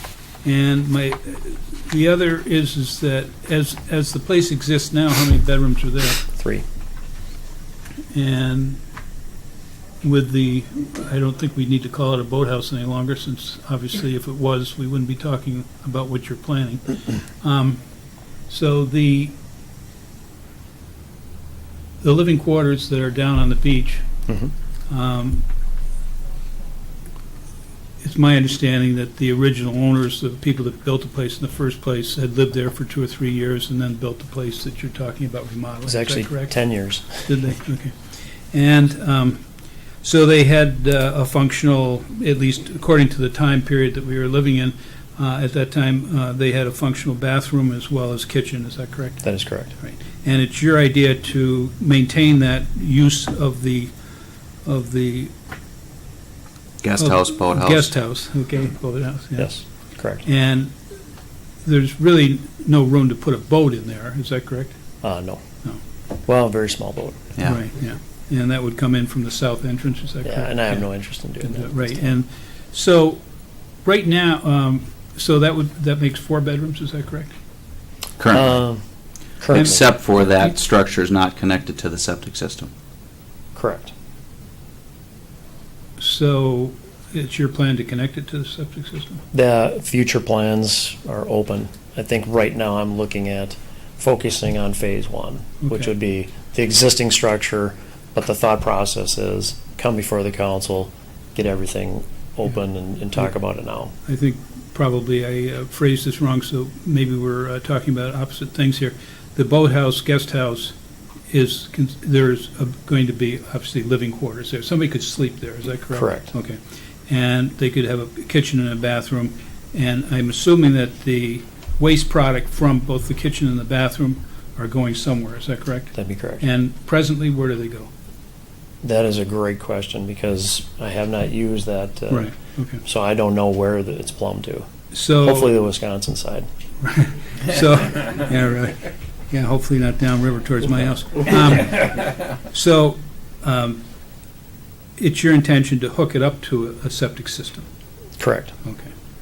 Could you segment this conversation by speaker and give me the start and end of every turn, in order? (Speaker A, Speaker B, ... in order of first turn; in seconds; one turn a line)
Speaker A: 0.4-6.2
Speaker B: 6.3-6.6
Speaker A: 8.1-8.8
Speaker A: 10.0-17.8
Speaker A: 18.5-19.3
Speaker A: 22.0-24.1
Speaker A: 24.9-25.4
Speaker A: 28.0-36.5
Speaker B: 35.9-37.3
Speaker A: 37.2-37.9
Speaker A: 38.5-39.4
Speaker A: 40.0-49.2
Speaker B: 49.2-49.7
Speaker A: 49.8-53.9
Speaker A: 54.6-55.3
Speaker C: 56.8-57.9
Speaker A: 57.0-59.6
Speaker B: 59.4-60.2
Speaker A: 60.2-60.7
Speaker A: 61.6-64.8
Speaker B: 65.0-65.4
Speaker B: 66.2-67.3
Speaker A: 67.4-70.8
Speaker B: 70.2-72.1
Speaker A: 71.4-73.2
Speaker A: 73.8-77.3
Speaker C: 78.2-78.5
Speaker B: 78.3-78.8
Speaker B: 79.4-79.8
Speaker C: 79.5-82.7
Speaker B: 83.5-83.9
Speaker A: 86.0-89.2
Speaker B: 89.3-103.9
Speaker A: 95.6-95.9
Speaker A: 104.0-110.7
Speaker A: 111.3-127.9
Speaker B: 115.9-116.3
Speaker B: 125.9-126.5
Speaker B: 128.8-134.7
Speaker A: 132.1-132.8
Speaker A: 134.9-135.5
Speaker B: 135.2-136.5
Speaker A: 136.8-143.8
Speaker A: 145.0-147.7
Speaker B: 148.2-148.5
Speaker A: 148.6-148.9